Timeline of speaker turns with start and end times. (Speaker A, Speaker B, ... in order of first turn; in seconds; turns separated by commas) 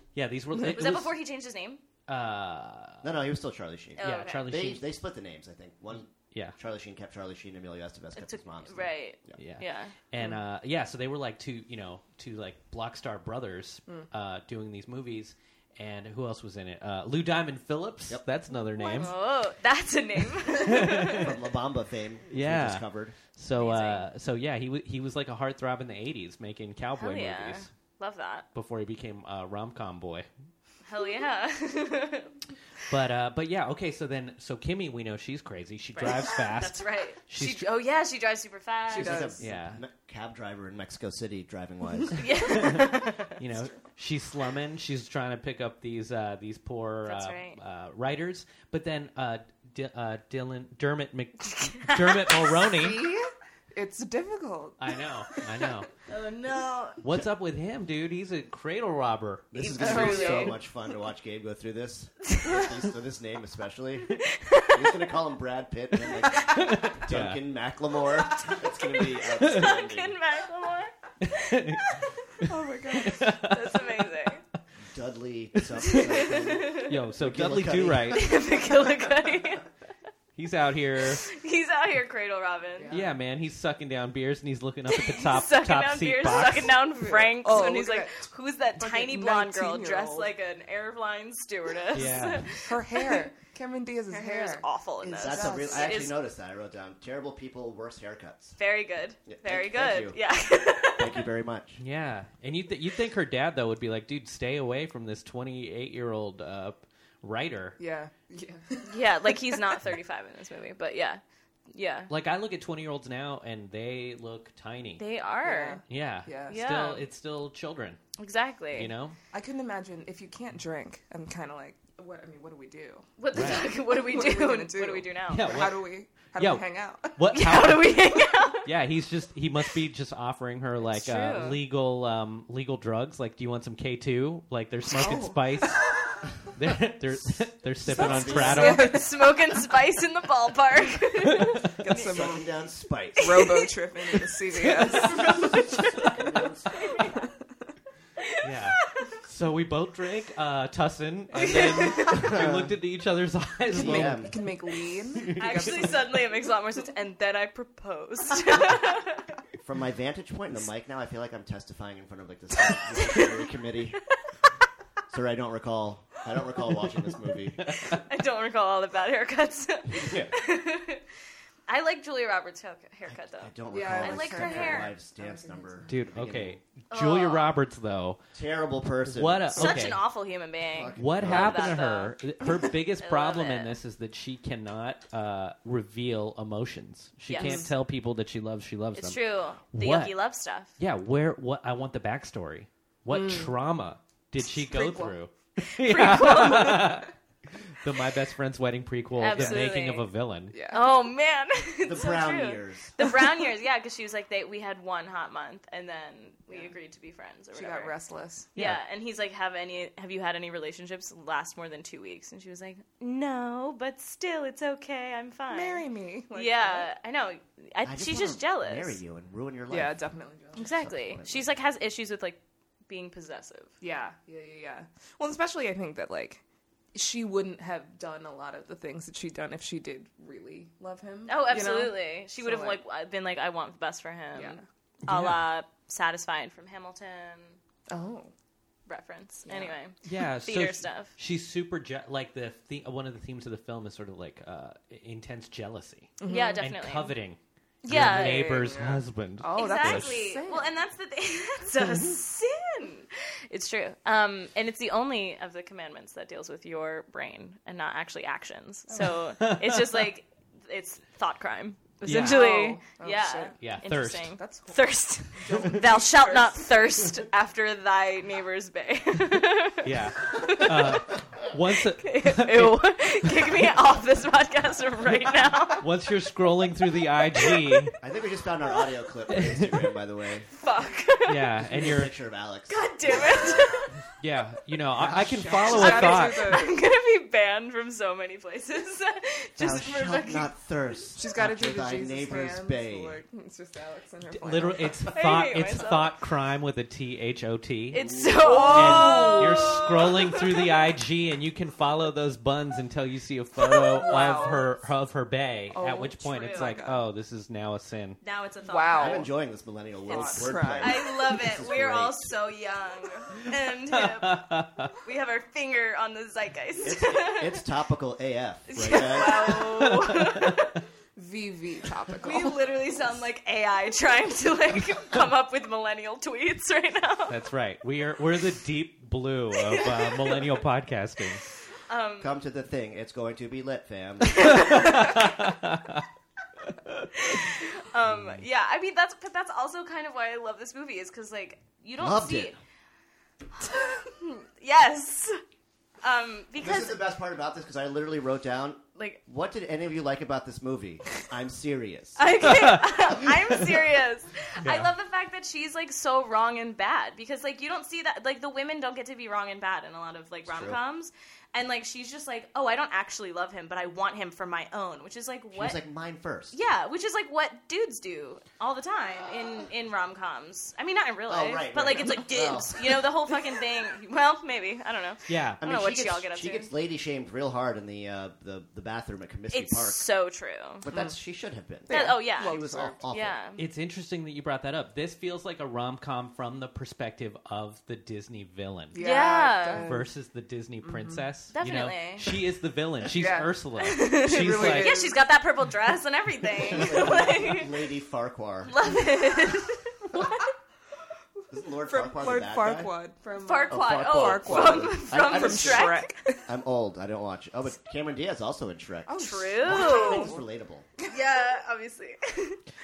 Speaker A: 0.1-1.1, Speaker B: 0.6-1.8, Speaker A: 2.1-3.1, Speaker C: 3.0-9.4, Speaker B: 4.0-4.5, Speaker A: 4.0-4.9, Speaker A: 6.3-6.6, Speaker B: 8.2-9.9, Speaker A: 9.4-19.1, Speaker B: 18.7-21.3, Speaker A: 20.5-21.3, Speaker C: 21.1-23.1, Speaker A: 22.3-27.7, Speaker B: 23.5-24.1, Speaker B: 27.0-28.4, Speaker A: 28.5-30.3, Speaker B: 30.8-32.3, Speaker A: 32.9-37.7, Speaker B: 36.0-39.3, Speaker D: 38.9-39.4, Speaker C: 38.9-42.3, Speaker A: 39.4-39.8, Speaker B: 42.1-43.3, Speaker A: 42.4-53.1, Speaker B: 47.0-47.6, Speaker B: 51.5-52.5, Speaker D: 52.7-55.0, Speaker A: 54.8-55.9, Speaker B: 56.1-57.0, Speaker A: 57.0-59.5, Speaker C: 59.5-70.2, Speaker B: 59.5-60.6, Speaker D: 59.8-60.5, Speaker B: 64.3-64.8, Speaker A: 66.4-67.4, Speaker B: 68.2-72.1, Speaker A: 71.2-72.0, Speaker D: 72.4-73.3, Speaker A: 72.9-73.8, Speaker B: 73.0-74.4, Speaker C: 74.9-78.3, Speaker A: 75.6-75.9, Speaker B: 75.8-77.0, Speaker A: 76.8-78.3, Speaker B: 78.1-79.7, Speaker A: 80.3-81.2, Speaker B: 81.1-82.9, Speaker D: 82.8-83.1, Speaker A: 82.9-86.8, Speaker B: 84.9-93.2, Speaker D: 86.9-90.3, Speaker A: 91.9-92.5, Speaker D: 92.6-96.0, Speaker B: 94.1-96.2, Speaker C: 95.1-98.6, Speaker B: 98.6-101.3, Speaker C: 99.2-100.2, Speaker C: 100.9-101.8, Speaker A: 101.8-107.8, Speaker D: 107.8-109.7, Speaker B: 108.8-112.1, Speaker A: 112.1-115.0, Speaker B: 115.0-115.8, Speaker D: 115.4-116.6, Speaker A: 115.9-118.0, Speaker B: 116.5-117.0, Speaker B: 118.2-118.9, Speaker A: 118.7-119.2, Speaker D: 119.3-127.2, Speaker B: 123.2-125.6, Speaker A: 123.3-123.7, Speaker A: 125.3-128.1, Speaker B: 127.3-128.7, Speaker A: 128.6-135.9, Speaker B: 130.8-131.6, Speaker D: 134.9-135.4, Speaker A: 136.5-139.1, Speaker C: 137.9-138.8, Speaker D: 137.9-139.4, Speaker B: 138.0-142.3, Speaker D: 141.7-142.4, Speaker C: 141.9-143.5, Speaker B: 143.2-143.7, Speaker D: 143.2-145.4, Speaker A: 144.6-145.5, Speaker B: 144.9-146.1, Speaker C: 145.4-147.1, Speaker B: 146.7-147.2, Speaker B: 148.2-148.5, Speaker A: 148.4-154.4, Speaker B: 151.3-152.3, Speaker C: 152.0-152.7, Speaker D: 153.7-156.3, Speaker C: 153.7-154.4, Speaker B: 155.3-159.2, Speaker C: 159.6-164.0, Speaker B: 162.9-163.3, Speaker C: 165.1-167.6, Speaker A: 167.6-167.9, Speaker B: 167.7-171.0, Speaker C: 169.9-170.3, Speaker B: 171.7-174.9, Speaker C: 173.1-176.6, Speaker D: 173.7-175.9, Speaker A: 175.9-178.2, Speaker B: 176.9-177.5, Speaker C: 178.3-179.8, Speaker A: 179.1-180.0, Speaker B: 179.5-182.2, Speaker C: 180.7-181.8, Speaker A: 180.9-189.2, Speaker B: 183.0-183.7, Speaker B: 187.3-187.7, Speaker D: 187.3-187.7, Speaker B: 188.9-190.7, Speaker A: 189.7-190.2, Speaker A: 190.8-197.1, Speaker D: 193.1-193.5, Speaker D: 194.5-195.2, Speaker B: 195.6-197.1, Speaker A: 197.7-200.6, Speaker B: 199.2-200.1, Speaker D: 200.5-200.9, Speaker B: 200.7-207.9, Speaker C: 201.8-203.0, Speaker D: 207.5-208.5, Speaker B: 208.5-219.0, Speaker D: 215.5-216.9, Speaker C: 217.8-220.0, Speaker D: 219.7-220.7, Speaker C: 220.6-221.5, Speaker B: 220.6-223.7, Speaker D: 223.8-226.4, Speaker D: 226.9-232.8, Speaker B: 231.3-237.6, Speaker D: 234.3-234.6, Speaker A: 235.0-235.5, Speaker D: 237.9-238.3, Speaker B: 238.9-241.1, Speaker D: 239.4-239.8, Speaker A: 240.0-250.2, Speaker D: 246.2-246.6, Speaker B: 246.2-247.1, Speaker B: 247.8-248.8, Speaker D: 247.8-250.7, Speaker B: 249.5-271.1, Speaker A: 259.4-260.0, Speaker A: 262.0-262.5, Speaker D: 262.1-263.6, Speaker A: 263.6-264.4, Speaker D: 264.4-267.1, Speaker A: 269.8-273.5, Speaker B: 271.9-275.9, Speaker A: 275.8-277.9, Speaker B: 277.4-277.9, Speaker C: 278.0-280.5, Speaker A: 279.3-279.7, Speaker B: 280.6-281.5, Speaker A: 281.3-282.1, Speaker C: 281.7-283.7, Speaker B: 282.7-283.9, Speaker A: 284.2-286.6, Speaker C: 285.0-285.6, Speaker D: 285.1-286.8, Speaker B: 285.6-290.5, Speaker C: 289.6-293.2, Speaker D: 291.1-295.0, Speaker A: 294.3-308.2, Speaker B: 295.1-296.1, Speaker B: 297.9-300.7, Speaker C: 297.9-299.4, Speaker D: 303.9-304.7, Speaker D: 305.7-307.0, Speaker B: 306.2-306.8, Speaker B: 308.2-309.3, Speaker D: 308.6-309.3, Speaker C: 308.9-312.3, Speaker D: 310.0-311.1, Speaker B: 310.1-317.6, Speaker A: 313.9-314.9, Speaker C: 316.8-319.6, Speaker B: 318.7-320.8, Speaker A: 318.8-320.5, Speaker D: 321.1-322.6, Speaker B: 322.2-327.4, Speaker A: 327.3-331.5, Speaker B: 329.7-330.4, Speaker B: 331.9-332.4, Speaker C: 332.2-334.9, Speaker B: 334.4-334.9, Speaker A: 334.5-336.0, Speaker B: 337.1-342.6, Speaker C: 342.0-342.5, Speaker B: 343.6-345.4, Speaker B: 346.0-347.0, Speaker C: 346.6-352.2, Speaker B: 348.9-349.2, Speaker B: 352.1-365.8, Speaker A: 352.4-353.1, Speaker A: 354.6-354.9, Speaker C: 360.4-360.8, Speaker C: 365.5-366.6, Speaker B: 366.5-376.7, Speaker C: 371.3-373.1, Speaker A: 375.3-375.6, Speaker C: 375.6-380.0, Speaker B: 379.5-380.9, Speaker C: 380.8-383.4, Speaker D: 380.9-381.1, Speaker D: 381.9-383.0, Speaker B: 381.9-383.6, Speaker A: 383.6-389.1, Speaker D: 388.9-390.1, Speaker B: 388.9-389.9, Speaker A: 389.7-395.1, Speaker D: 390.8-391.2, Speaker B: 391.5-392.3, Speaker D: 393.1-395.2, Speaker B: 393.8-397.8, Speaker C: 396.6-398.9, Speaker B: 398.6-400.5, Speaker C: 401.5-402.9, Speaker D: 401.9-406.4, Speaker B: 403.4-406.1, Speaker C: 403.7-410.9, Speaker D: 409.1-410.4, Speaker B: 409.2-410.3, Speaker B: 411.1-412.6